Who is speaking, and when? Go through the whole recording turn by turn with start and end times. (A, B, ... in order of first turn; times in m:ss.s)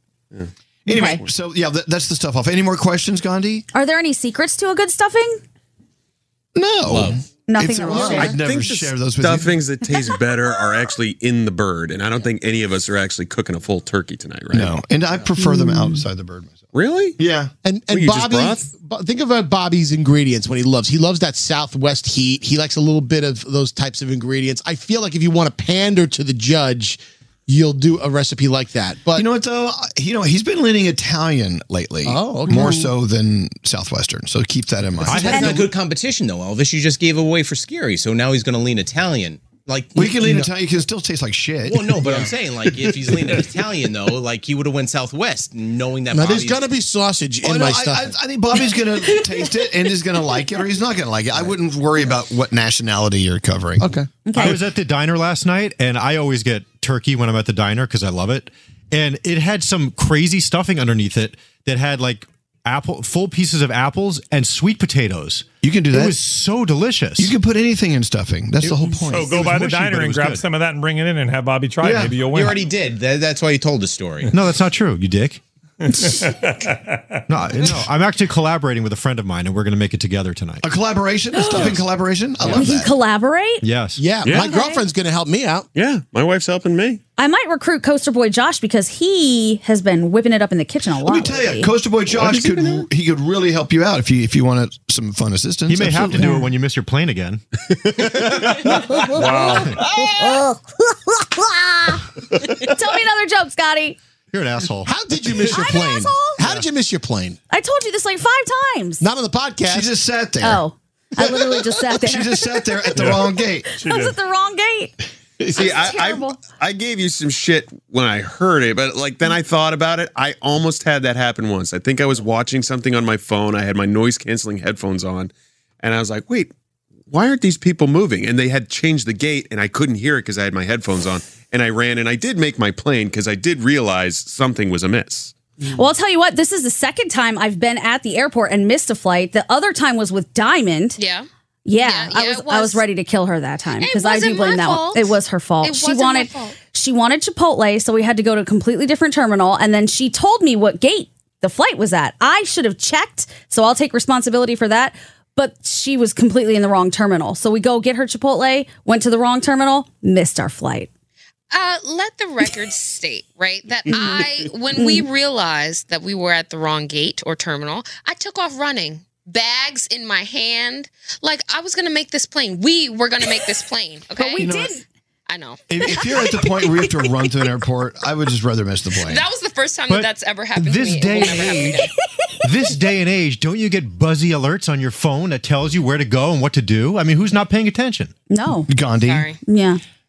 0:00.3-0:01.2 A
0:00.9-0:03.7 B
0:00.9-0:01.2 C
0:03.7-0:05.4 C
0:06.6-0:09.6 B
0:06.9-0:07.2 D
0:07.5-0:08.4 C
0:07.9-0:08.3 E
0:08.3-0:14.8 A
0:14.5-0:16.7 B
0:15.4-0:16.0 C
0:16.7-0:17.2 A
0:17.2-0:17.5 B
0:17.6-0:29.2 E
0:17.9-0:18.6 A
0:29.2-0:35.6 B
0:32.0-0:32.8 E
0:35.1-0:35.5 F
0:35.1-0:40.3 D
0:35.3-0:35.6 C
0:40.0-0:42.0 B
0:40.2-0:40.5 E
0:41.6-0:46.7 D
0:42.0-0:42.3 E
0:42.9-0:43.4 E
0:46.1-0:48.2 E
0:47.4-0:53.9 B
0:54.2-0:54.6 C
0:54.3-1:07.3 F
1:05.6-1:06.2 B
1:07.2-1:09.4 B
1:09.1-1:12.6 G
1:09.2-1:10.4 F
1:11.8-1:12.2 B
1:12.2-1:14.3 D
1:14.3-1:15.4 F
1:15.9-1:16.7 G
1:17.3-1:20.6 F
1:20.6-1:22.9 B
1:21.3-1:21.8 C
1:22.5-1:23.6 C
1:23.6-1:24.0 F
1:24.0-1:25.7 E
1:24.2-1:24.6 A
1:24.4-1:24.8 C
1:25.7-1:27.0 A
1:27.2-1:31.7 C
1:31.0-1:36.4 B
1:32.2-1:32.8 A
1:35.7-1:37.4 F
1:36.1-1:36.5 C
1:37.7-1:39.2 A
1:38.8-1:40.7 C
1:39.2-1:39.6 G
1:39.5-1:39.8 F
1:42.7-1:44.0 C
1:44.3-1:45.4 F
1:44.8-1:47.4 E
1:45.5-1:46.4 C
1:47.5-1:49.1 C
1:49.0-1:49.9 E
1:49.7-1:50.6 B
1:50.4-1:55.0 C
1:52.0-1:53.7 B
1:53.8-1:54.1 G
1:55.5-1:56.4 C
1:55.6-2:06.5 A
2:07.1-2:15.3 A
2:15.7-2:21.0 C
2:21.0-2:21.3 H
2:21.6-2:40.9 C
2:21.8-2:22.8 H
2:23.8-2:26.6 H
2:41.5-2:54.5 H
2:43.9-2:44.2 C
2:44.8-2:45.0 C
2:54.2-2:54.8 C
2:54.4-2:54.8 B
2:55.3-2:56.1 H
2:55.7-2:59.3 B
2:58.9-3:01.9 H
2:59.9-3:01.9 F
3:02.4-3:08.1 F
3:08.3-3:08.7 C
3:08.7-3:09.3 B
3:09.0-3:09.4 H
3:09.5-3:09.8 C